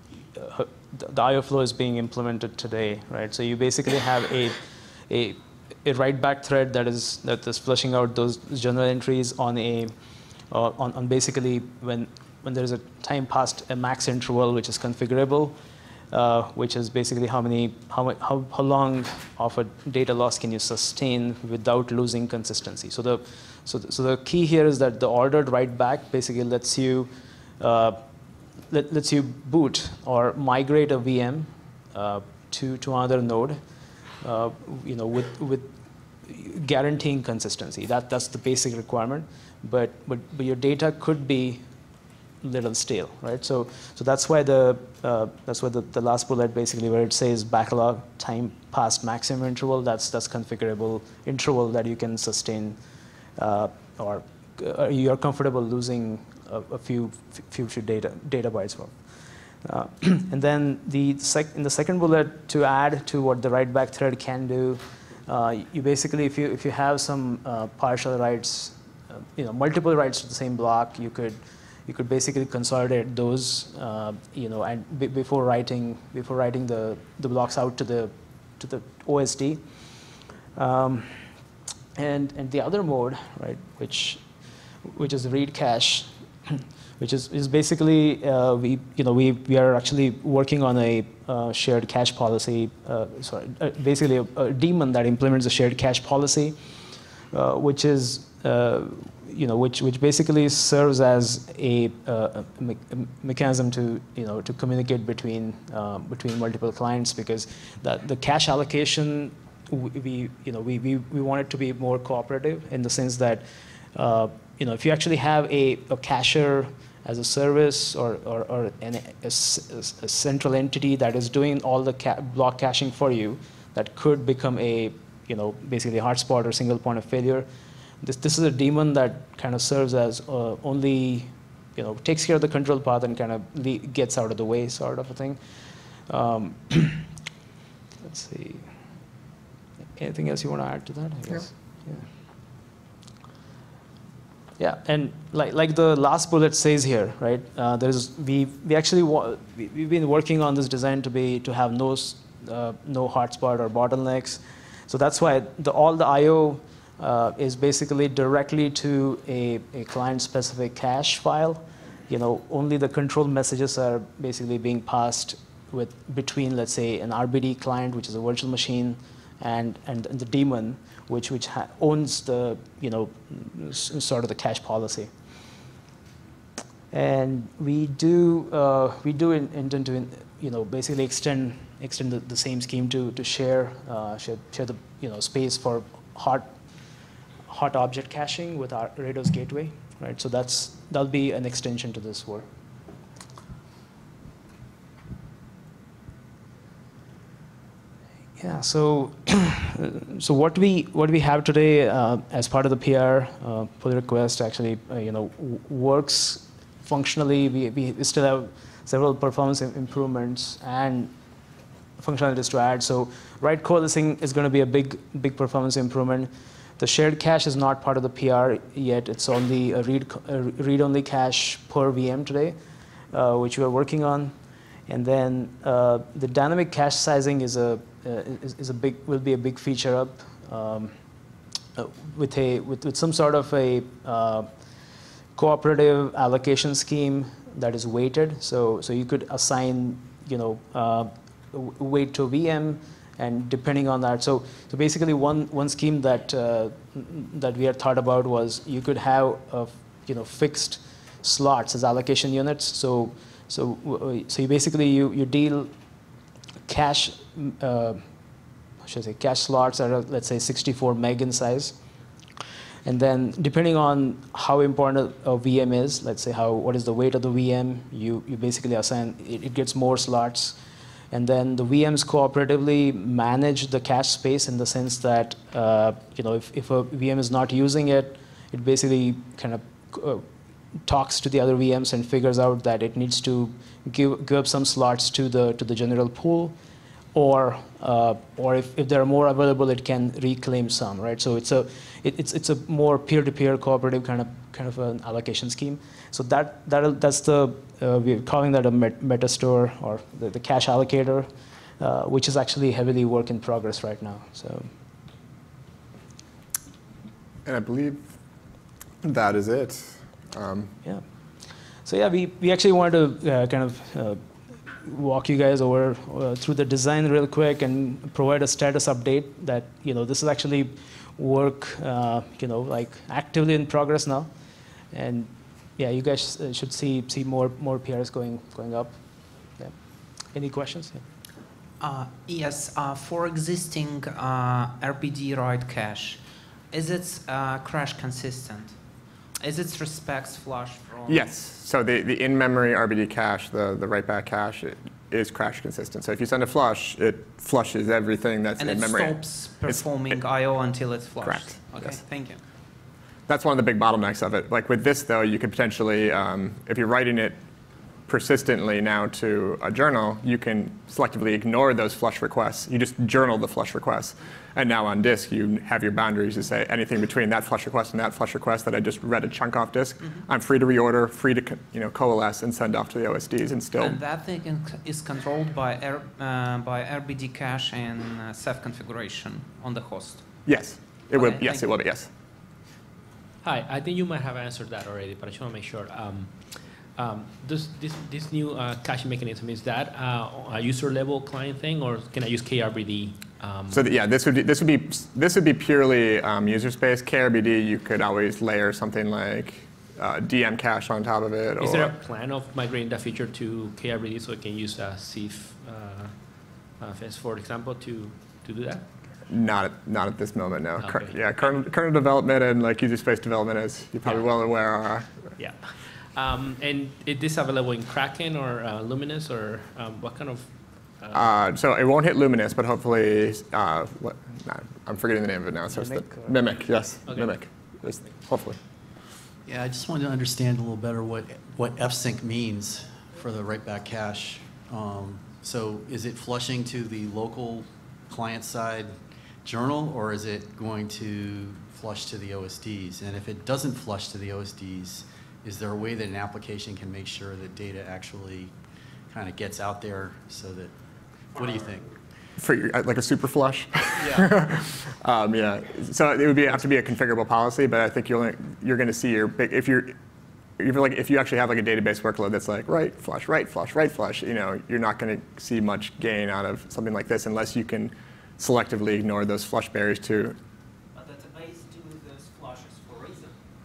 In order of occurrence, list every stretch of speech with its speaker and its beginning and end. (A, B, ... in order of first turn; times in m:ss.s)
0:00.3-0:09.9 A
0:10.5-0:15.6 A
0:16.1-0:28.0 A
0:28.7-0:33.6 A
0:34.2-0:35.7 A
0:36.2-0:41.6 A
0:42.4-0:52.8 A
0:53.4-0:59.1 A
0:59.6-1:08.8 A
1:09.4-1:19.6 A
1:20.6-1:21.3 A
1:22.0-1:24.3 A
1:24.8-1:36.6 A
1:37.3-2:07.5 A
2:08.0-2:15.4 A
2:16.1-2:17.1 A
2:18.0-2:18.7 A
2:20.0-2:22.1 A
2:24.6-2:55.1 A
2:56.9-3:06.5 A
3:07.5-3:12.5 A
3:18.4-3:31.1 A
3:32.0-3:42.6 A
3:43.1-3:44.4 A
3:44.9-3:50.9 A
3:51.8-3:54.5 A
3:55.4-4:15.7 A
4:16.7-4:18.0 A
4:18.8-4:21.8 A
4:22.8-4:30.6 A
4:31.1-4:40.3 A
4:40.8-4:46.6 A
4:47.2-5:01.3 A
5:01.8-5:04.7 A
5:07.4-5:08.2 B
5:09.0-5:10.7 B
5:11.8-5:14.2 A
5:14.8-5:24.3 A
5:24.9-5:31.0 A
5:31.8-5:38.8 C
5:39.4-5:41.5 C
5:41.1-5:49.8 B
5:48.6-5:52.4 C
5:51.2-5:52.0 B
5:53.3-5:57.4 B
5:58.1-6:14.0 B
6:13.8-6:20.4 C
6:20.5-6:22.1 B
6:21.1-6:21.6 C
6:23.4-6:33.9 D
6:33.7-6:42.0 B
6:41.6-6:48.9 D
6:49.3-6:55.3 B
6:50.8-6:51.2 D
6:55.4-7:01.4 D
7:01.1-7:08.6 B
7:05.8-7:06.3 A
7:07.1-7:07.4 D
7:09.5-7:28.6 E
7:29.1-7:30.8 E
7:31.3-7:31.9 E
7:32.4-7:40.0 B
7:40.6-7:50.4 B
7:51.2-7:53.0 C